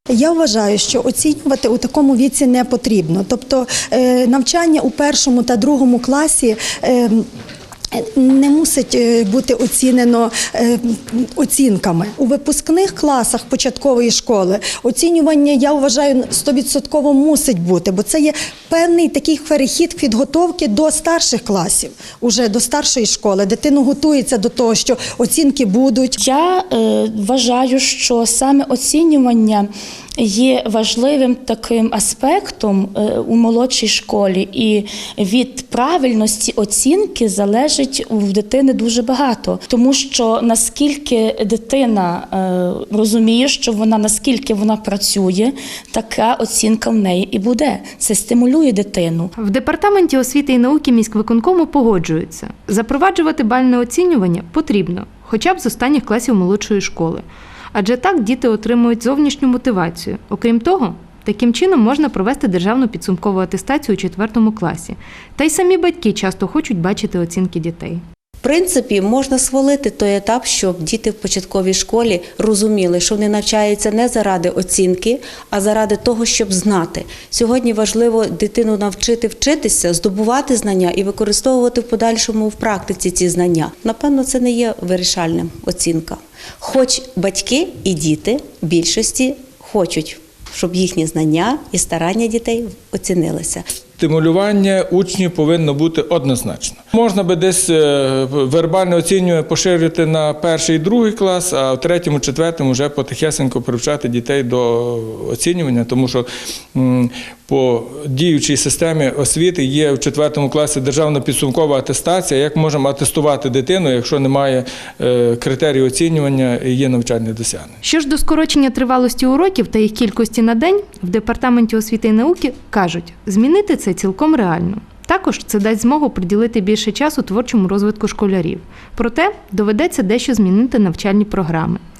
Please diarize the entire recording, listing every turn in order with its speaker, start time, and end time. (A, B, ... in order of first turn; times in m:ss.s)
0:00.1-0:07.3 A
0:07.9-0:26.2 A
0:26.2-0:29.7 B
0:30.2-0:49.3 B
0:49.4-1:08.0 C
1:08.4-1:33.6 D
1:34.0-1:57.7 E
1:57.8-2:11.8 C